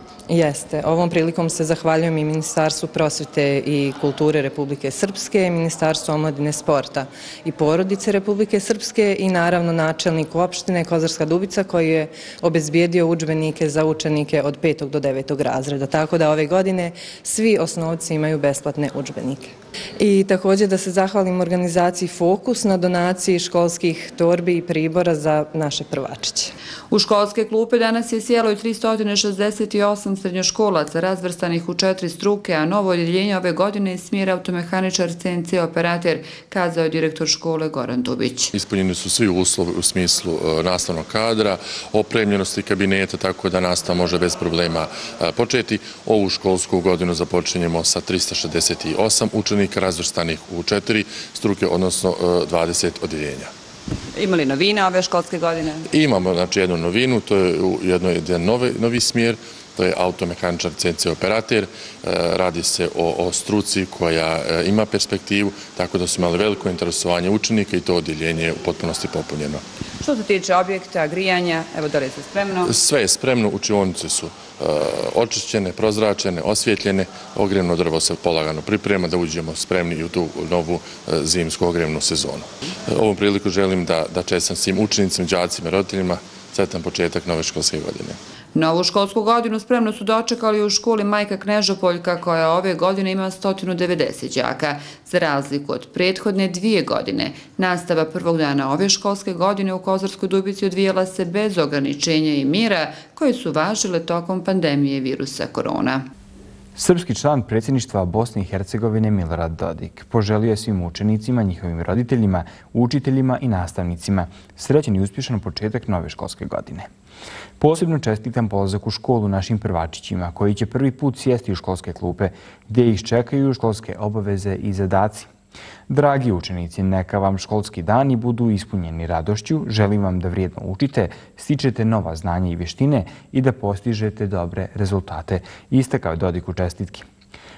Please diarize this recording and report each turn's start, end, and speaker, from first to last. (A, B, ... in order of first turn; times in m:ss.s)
0:00.3-0:26.5 A
0:26.9-0:38.5 B
0:38.5-0:53.5 C
0:54.2-0:55.8 B
0:55.9-1:09.6 C
1:10.0-1:12.7 B
1:12.6-1:28.2 C
1:28.6-1:46.1 B
1:46.8-1:56.9 D
1:57.6-2:05.3 D
2:05.9-2:17.1 D